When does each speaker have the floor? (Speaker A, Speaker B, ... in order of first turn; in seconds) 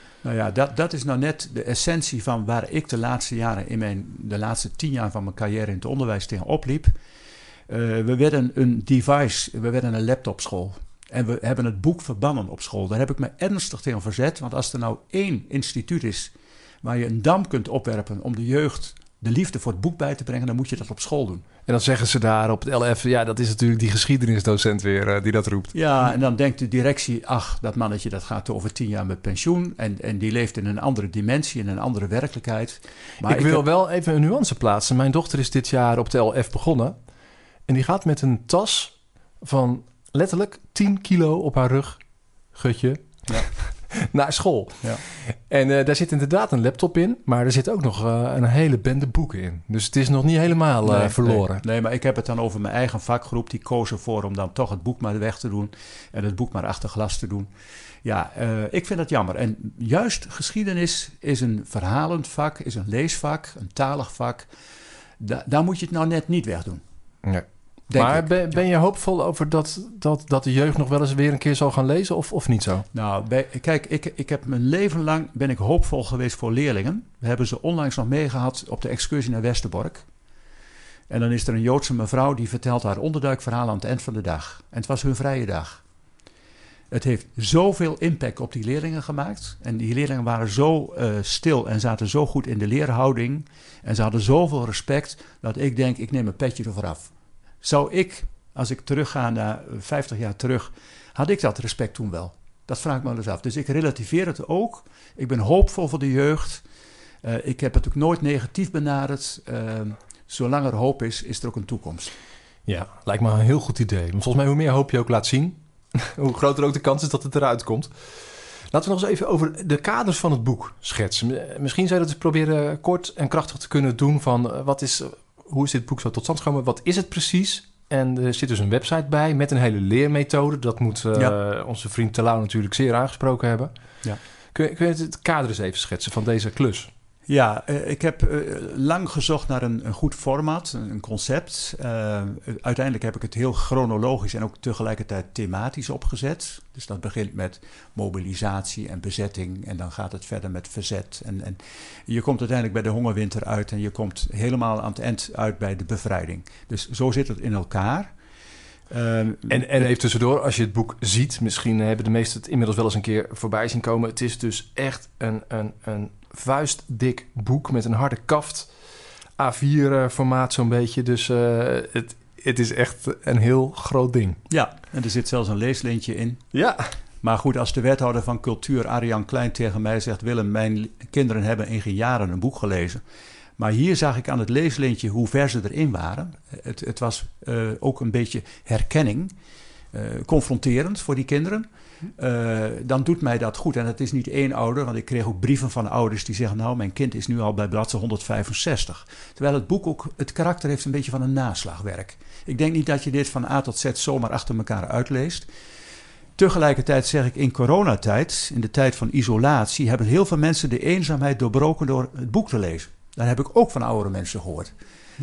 Speaker A: 0.2-6.9, 7.7-21.4, 25.7-33.6, 50.8-57.5, 58.0-64.5, 65.2-66.8, 67.9-68.5, 72.9-80.0, 81.1-85.8, 86.9-106.6, 107.2-112.1, 137.3-158.1, 158.9-159.7, 174.5-176.4, 177.2-183.0, 183.6-189.3, 189.9-205.5, 206.4-214.8
Speaker B: 21.6-25.7, 33.2-37.0, 37.7-51.6, 67.2-72.8, 112.7-133.7, 134.5-136.9, 159.5-168.7, 169.4-174.4, 176.5-176.9